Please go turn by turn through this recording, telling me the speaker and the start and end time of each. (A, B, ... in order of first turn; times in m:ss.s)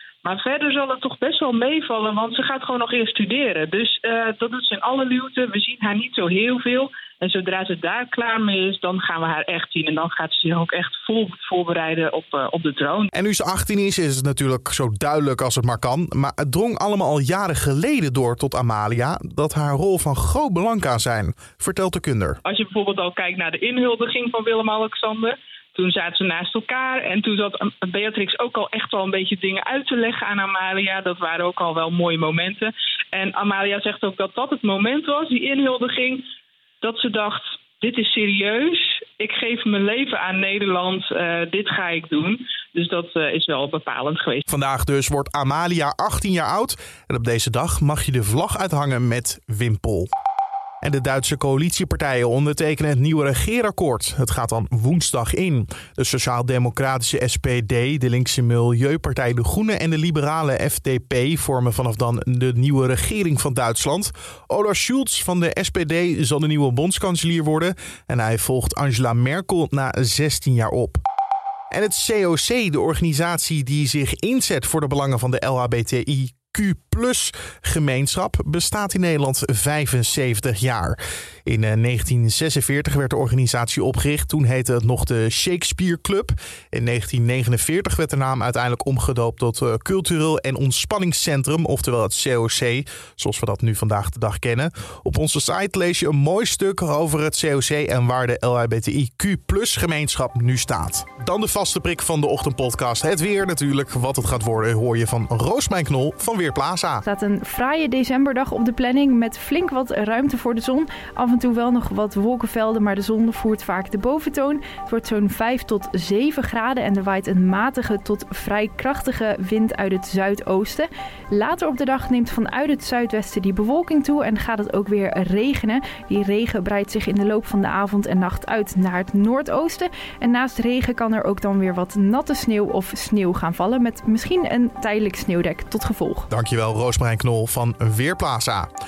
0:00.2-0:13.1 A
0:13.1-0:22.4 B
0:22.4-0:36.2 A
0:36.8-0:44.4 A
0:44.5-0:50.1 B
0:50.8-1:11.0 B
1:11.7-1:47.1 B
1:47.1-2:16.3 C
2:16.3-2:18.7 B